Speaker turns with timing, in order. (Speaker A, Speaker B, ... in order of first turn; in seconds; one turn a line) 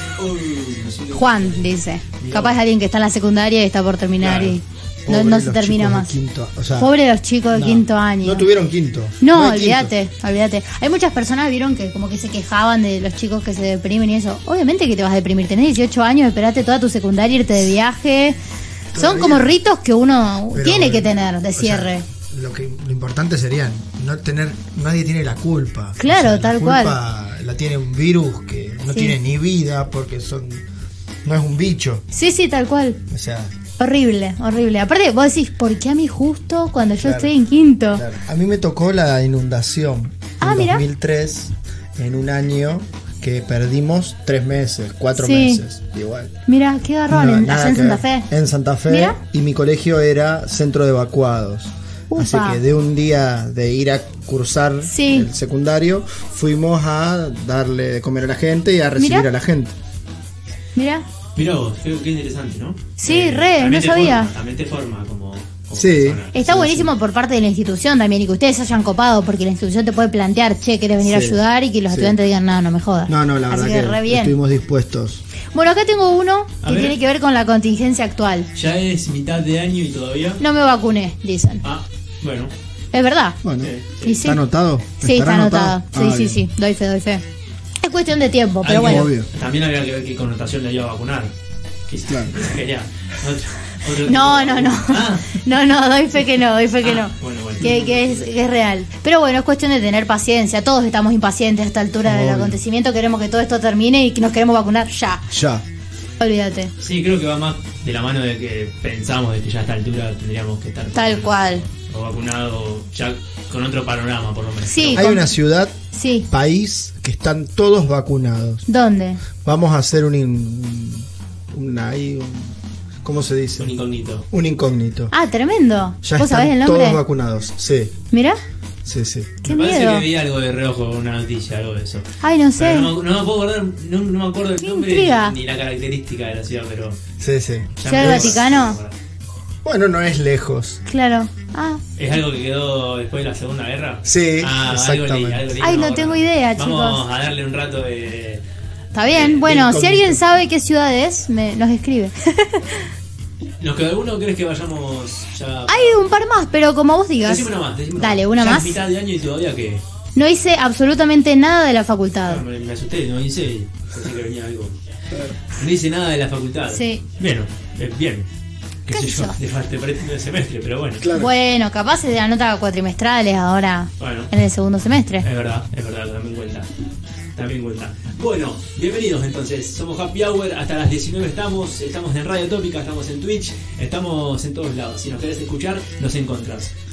Speaker A: 0.2-2.6
Speaker B: 1.1-6.1
Speaker A: 4.2-4.6
Speaker C: 5.0-6.9
Speaker B: 6.8-8.5
Speaker C: 7.5-9.9
Speaker B: 9.2-18.4
Speaker C: 18.9-19.6
Speaker B: 18.9-22.1
Speaker C: 20.5-30.6
Speaker B: 26.0-27.0
Speaker B: 28.9-29.2
Speaker C: 31.2-32.0
Speaker B: 32.1-33.0
Speaker C: 33.1-33.5
Speaker B: 33.8-38.0
Speaker C: 37.0-37.3
Speaker C: 37.9-46.3
Speaker B: 40.4-40.8
Speaker B: 45.1-45.6
Speaker B: 46.5-48.3
Speaker C: 47.1-59.8
Speaker B: 48.9-49.2
Speaker B: 52.1-52.6
Speaker B: 54.8-55.3
Speaker B: 59.0-59.3
Speaker B: 60.8-61.0
Speaker A: 61.4-66.3
Speaker B: 63.0-64.3
Speaker C: 65.7-66.9
Speaker B: 66.3-74.3
Speaker C: 71.0-72.1
Speaker C: 73.1-75.2
Speaker B: 75.5-78.5
Speaker A: 76.6-77.0
Speaker A: 78.5-80.4
Speaker B: 80.4-81.6
Speaker A: 81.6-82.5
Speaker B: 82.9-83.4
Speaker C: 83.4-86.4
Speaker A: 83.6-84.3
Speaker B: 84.0-84.4
Speaker B: 85.0-87.2
Speaker B: 87.8-89.1
Speaker A: 88.6-91.3
Speaker C: 88.7-89.3
Speaker A: 91.9-95.4
Speaker C: 92.1-92.4
Speaker B: 94.0-105.3
Speaker A: 96.8-98.2
Speaker C: 102.0-102.6
Speaker C: 105.3-105.6
Speaker B: 106.2-106.7
Speaker A: 106.8-115.1
Speaker B: 111.0-111.6
Speaker B: 114.6-115.3
Speaker C: 114.9-115.7
Speaker B: 115.9-116.3
Speaker C: 116.3-118.6
Speaker B: 118.7-119.2
Speaker C: 119.4-123.7
Speaker A: 123.6-124.3
Speaker C: 124.3-125.1
Speaker B: 125.1-127.0
Speaker C: 126.0-127.9
Speaker B: 128.1-128.4
Speaker C: 128.8-129.4
Speaker A: 129.4-132.1
Speaker B: 129.4-130.1
Speaker B: 132.2-132.9
Speaker A: 132.6-137.0
Speaker B: 134.6-135.4
Speaker C: 137.2-138.6
Speaker A: 137.8-138.9
Speaker B: 137.9-138.8
Speaker C: 139.6-140.8
Speaker B: 140.9-141.8
Speaker A: 142.0-148.4
Speaker C: 144.0-145.4
Speaker B: 145.6-147.0
Speaker B: 148.9-152.8
Speaker A: 149.1-149.5
Speaker C: 149.4-150.2
Speaker A: 153.6-156.0
Speaker B: 155.7-158.8
Speaker A: 157.2-159.8
Speaker B: 160.2-162.4
Speaker A: 162.2-164.8
Speaker C: 165.1-165.4
Speaker A: 165.6-168.3
Speaker B: 166.7-167.0
Speaker A: 168.9-171.1
Speaker B: 168.9-169.4
Speaker C: 171.0-171.3
Speaker B: 171.1-175.3
Speaker A: 174.0-174.3
Speaker A: 175.2-176.7
Speaker A: 177.3-186.7